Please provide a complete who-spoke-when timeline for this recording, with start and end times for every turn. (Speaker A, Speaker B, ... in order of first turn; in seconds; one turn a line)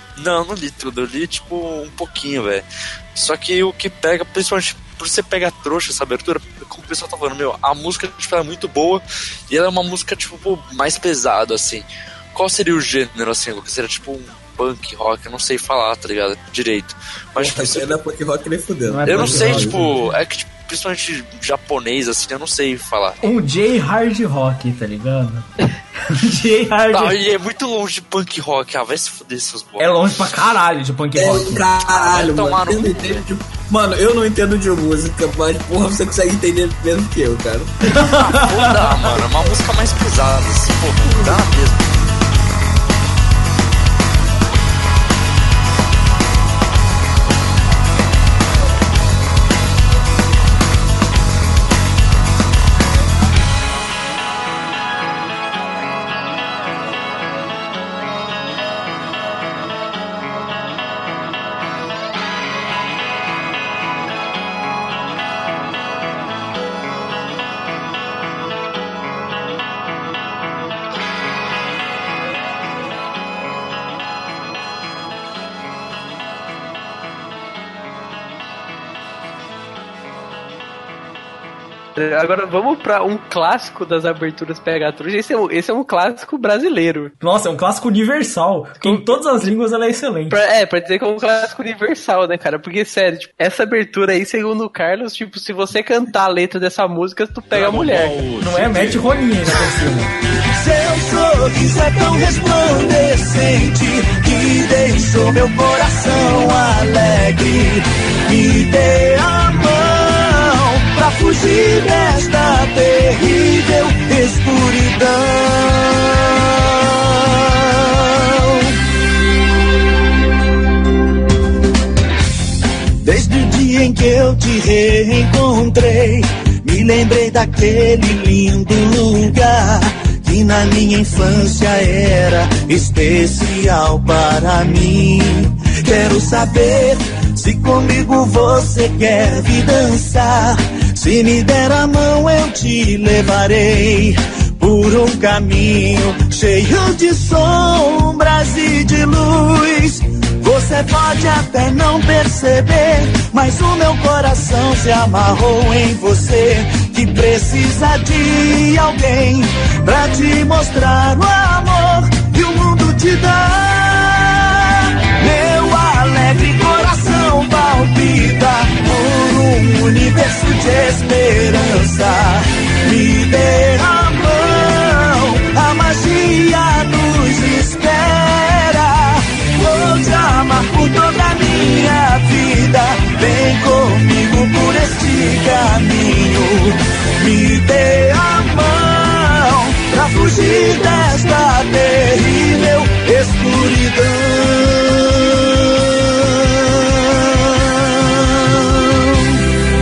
Speaker A: 0.2-18.0
Speaker B: 17.4-19.8
Speaker C: 18.9-20.0
Speaker A: 19.1-23.2
Speaker C: 23.2-27.2
Speaker A: 26.9-30.1
Speaker C: 29.8-31.8
Speaker B: 31.2-37.8
Speaker A: 31.8-33.3
Speaker C: 37.9-39.1
Speaker A: 38.3-41.9
Speaker D: 82.0-87.1
Speaker C: 87.2-90.4
Speaker D: 88.8-89.5
Speaker D: 90.3-98.2
Speaker A: 97.5-99.0
Speaker C: 98.4-100.1
Speaker E: 100.5-118.7
Speaker E: 123.0-195.7